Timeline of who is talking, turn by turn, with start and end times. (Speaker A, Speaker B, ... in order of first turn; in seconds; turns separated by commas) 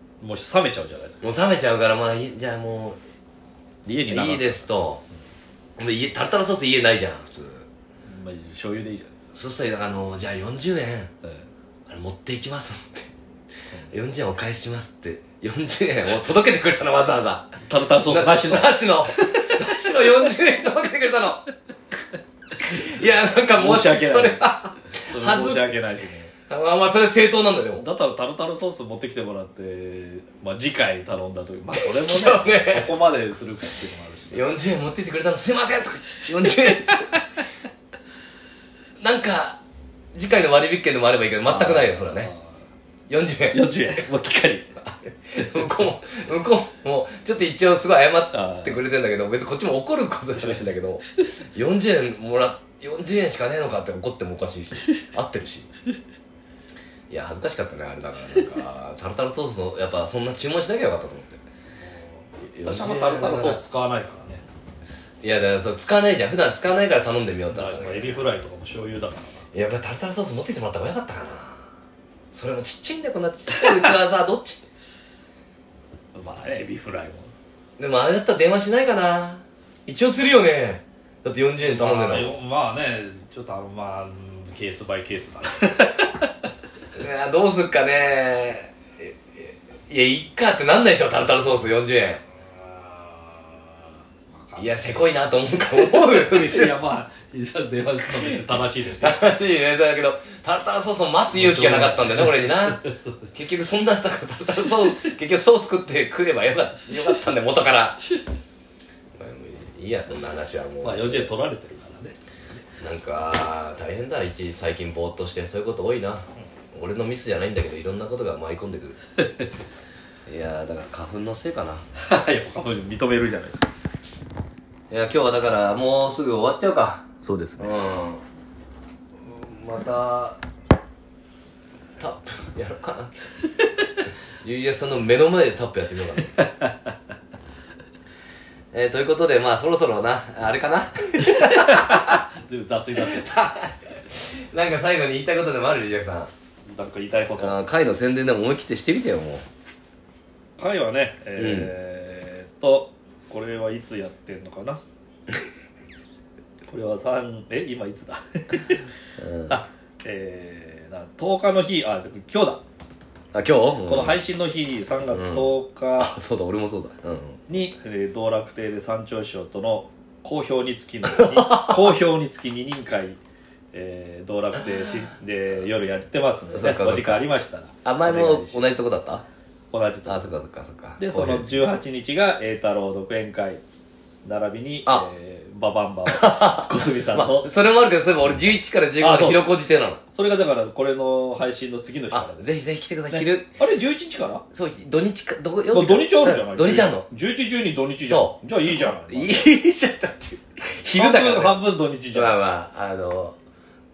Speaker A: 0.2-1.2, Speaker B: 1.2-3.0, Speaker A: 3.9-4.7, Speaker B: 4.1-5.0, Speaker B: 5.8-7.7, Speaker A: 8.1-9.1, Speaker B: 9.3-11.1, Speaker B: 11.9-13.1, Speaker B: 13.9-21.4, Speaker A: 17.6-20.3, Speaker B: 22.6-25.7, Speaker A: 23.5-24.4, Speaker A: 24.9-26.3, Speaker B: 26.5-27.9, Speaker A: 27.8-34.4, Speaker B: 31.7-32.9, Speaker B: 34.3-37.2, Speaker B: 39.0-39.6, Speaker B: 40.1-42.3, Speaker A: 41.4-42.5, Speaker B: 43.1-43.8, Speaker A: 43.5-44.8, Speaker B: 45.3-55.7, Speaker A: 45.3-45.7, Speaker A: 48.3-48.8, Speaker B: 57.1-61.4, Speaker B: 62.5-63.6, Speaker A: 62.6-64.4, Speaker B: 65.2-68.3, Speaker A: 67.5-69.4, Speaker B: 69.5-71.7, Speaker B: 72.3-74.6, Speaker A: 76.1-77.3, Speaker B: 77.8-82.3, Speaker A: 81.6-86.3, Speaker B: 87.0-92.2, Speaker A: 94.3-95.2, Speaker B: 94.6-96.8, Speaker A: 95.7-99.4, Speaker B: 99.0-102.8, Speaker A: 101.3-103.2, Speaker B: 103.3-108.0, Speaker B: 109.1-111.3, Speaker A: 110.8-112.6, Speaker B: 112.8-119.0, Speaker B: 120.3-121.8, Speaker A: 122.0-123.7, Speaker B: 124.9-127.0, Speaker A: 127.2-127.7, Speaker B: 127.6-128.2, Speaker B: 129.2-130.4, Speaker B: 132.0-133.1, Speaker B: 134.4-136.3, Speaker A: 136.4-136.7, Speaker B: 138.7-142.2, Speaker A: 141.2-143.4, Speaker B: 143.0-146.3, Speaker A: 146.7-147.6, Speaker B: 147.4-149.4, Speaker A: 150.6-154.8, Speaker B: 151.4-151.7, Speaker A: 156.7-158.8, Speaker B: 159.2-159.6, Speaker A: 159.5-162.6, Speaker B: 163.3-164.2, Speaker A: 163.8-166.1, Speaker B: 165.1-167.4, Speaker A: 167.5-173.2, Speaker B: 171.0-172.0, Speaker A: 173.7-178.6, Speaker B: 176.5-177.3, Speaker B: 177.8-179.2, Speaker A: 179.7-180.3, Speaker B: 180.1-181.6, Speaker A: 181.0-183.6, Speaker A: 184.2-187.5, Speaker B: 186.1-190.0, Speaker A: 188.2-189.5, Speaker A: 190.1-192.5, Speaker B: 192.1-193.5, Speaker A: 193.1-194.4, Speaker B: 194.5-197.1, Speaker A: 195.7-199.5, Speaker B: 198.1-203.4, Speaker A: 200.9-202.4